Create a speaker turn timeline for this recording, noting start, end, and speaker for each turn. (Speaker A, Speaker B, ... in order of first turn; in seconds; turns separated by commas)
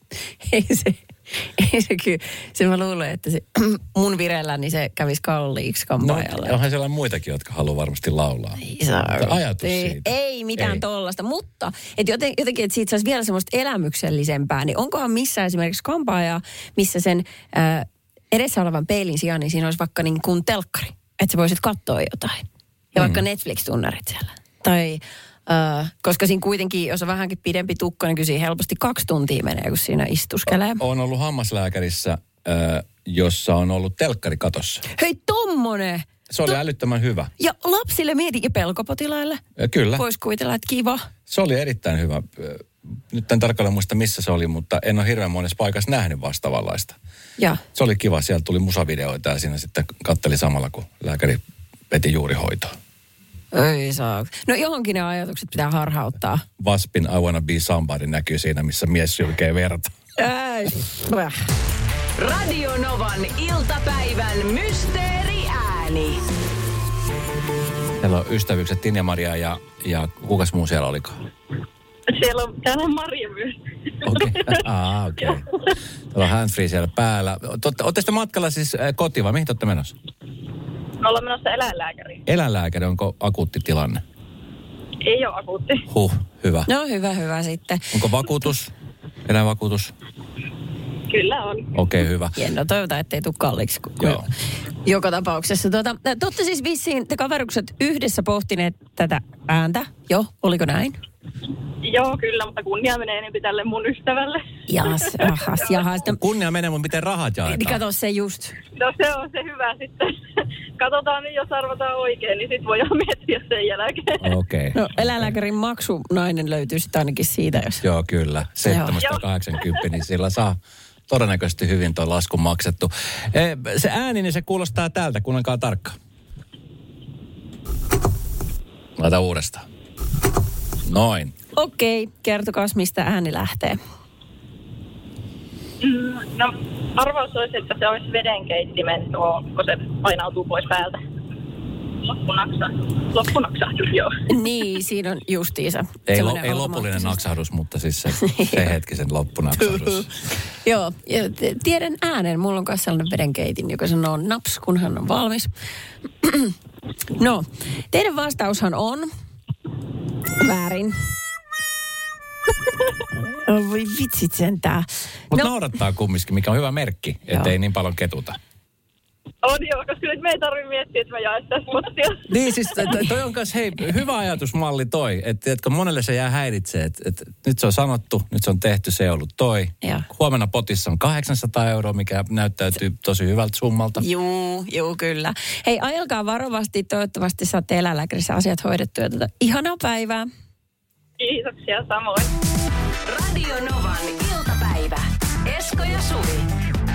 Speaker A: 0.4-6.6, Speaker B: 6.0-8.6, Speaker A: 8.6-30.8, Speaker B: 9.2-10.8, Speaker B: 22.9-23.2, Speaker B: 30.5-34.8, Speaker A: 34.9-36.5, Speaker B: 36.3-37.3, Speaker A: 37.4-39.4, Speaker B: 39.6-40.0, Speaker A: 40.0-41.1, Speaker B: 41.3-47.0, Speaker B: 47.7-52.7, Speaker A: 53.5-56.4, Speaker B: 56.6-59.9, Speaker A: 60.2-61.4, Speaker C: 62.1-66.2, Speaker B: 68.0-71.2, Speaker D: 72.1-74.6, Speaker B: 74.0-75.5, Speaker B: 76.1-79.9, Speaker D: 81.0-82.2, Speaker B: 82.3-84.0, Speaker D: 85.0-85.8, Speaker B: 85.9-86.7, Speaker A: 86.7-88.2, Speaker B: 87.9-88.7, Speaker B: 89.2-89.9, Speaker D: 91.1-91.7, Speaker B: 91.7-92.3, Speaker A: 92.3-94.3, Speaker B: 94.0-94.3, Speaker A: 94.8-101.0, Speaker D: 101.8-105.8, Speaker A: 104.7-106.2, Speaker B: 106.0-107.8, Speaker A: 107.4-108.5, Speaker D: 108.7-114.3, Speaker B: 114.2-115.3, Speaker A: 114.7-117.8, Speaker B: 117.8-120.6, Speaker A: 118.6-119.0, Speaker B: 121.1-126.0, Speaker B: 129.0-129.7, Speaker B: 130.8-131.3, Speaker A: 131.5-133.8, Speaker D: 135.8-141.0, Speaker D: 142.0-144.2, Speaker A: 144.3-147.2, Speaker B: 146.1-150.1, Speaker A: 148.2-148.7, Speaker A: 149.5-155.5, Speaker A: 156.2-156.6, Speaker A: 157.1-159.1, Speaker A: 160.4-160.9, Speaker A: 163.3-165.5, Speaker B: 165.3-168.4, Speaker A: 167.3-167.5, Speaker D: 169.4-172.3, Speaker B: 172.3-184.0, Speaker A: 184.0-190.3, Speaker D: 191.2-192.3, Speaker C: 193.1-196.5